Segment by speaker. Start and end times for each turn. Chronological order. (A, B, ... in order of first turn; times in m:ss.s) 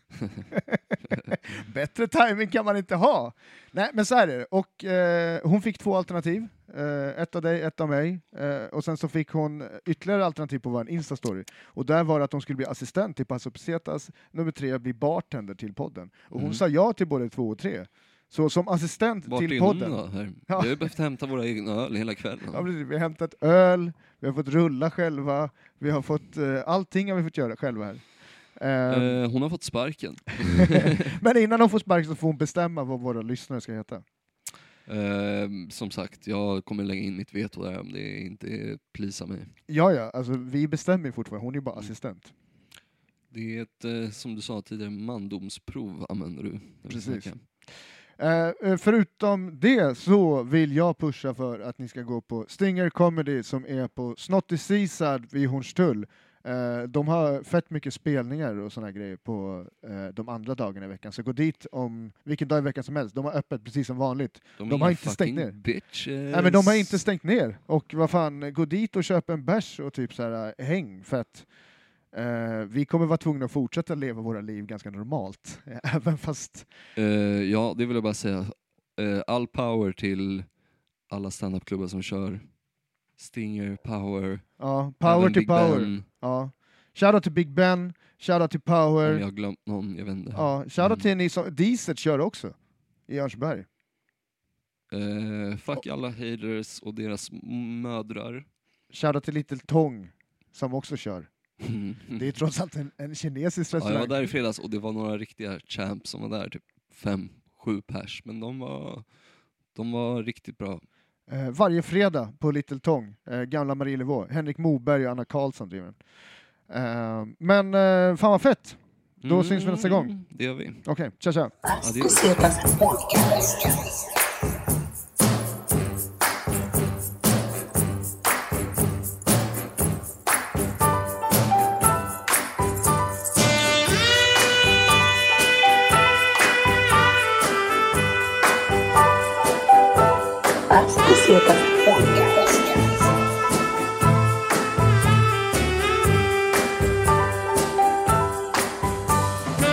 0:00.5-0:20.9 A
0:16.3-0:16.6 B
0:19.3-0:22.7 B
0:22.5-0:29.2 A
0:28.9-0:31.0 B
0:30.7-0:34.0 A
0:34.9-0:39.5 B
0:39.7-0:42.3 A
0:43.3-0:47.4 B
0:46.9-1:05.6 A
1:04.6-1:07.0 B
1:06.3-1:11.5 A
1:12.1-1:16.7 A
1:17.0-1:20.5 B
1:21.1-1:22.5 B
1:23.2-1:24.5 B
1:24.6-1:29.2 A
1:25.0-1:26.1 B
1:29.0-1:31.1 B
1:30.4-1:32.6 A
1:33.1-1:33.7 A
1:34.9-1:38.5 B
1:38.9-1:41.3 A
1:41.6-1:42.3 B
1:42.1-1:44.3 A
1:43.8-1:49.1 B
1:49.7-1:50.8 B
1:51.3-1:56.0 A
1:56.7-2:00.2 A
1:59.2-2:00.8 B
2:00.8-2:01.6 A
2:01.6-2:04.1 C
2:01.8-2:02.6 B
2:20.7-2:23.1 C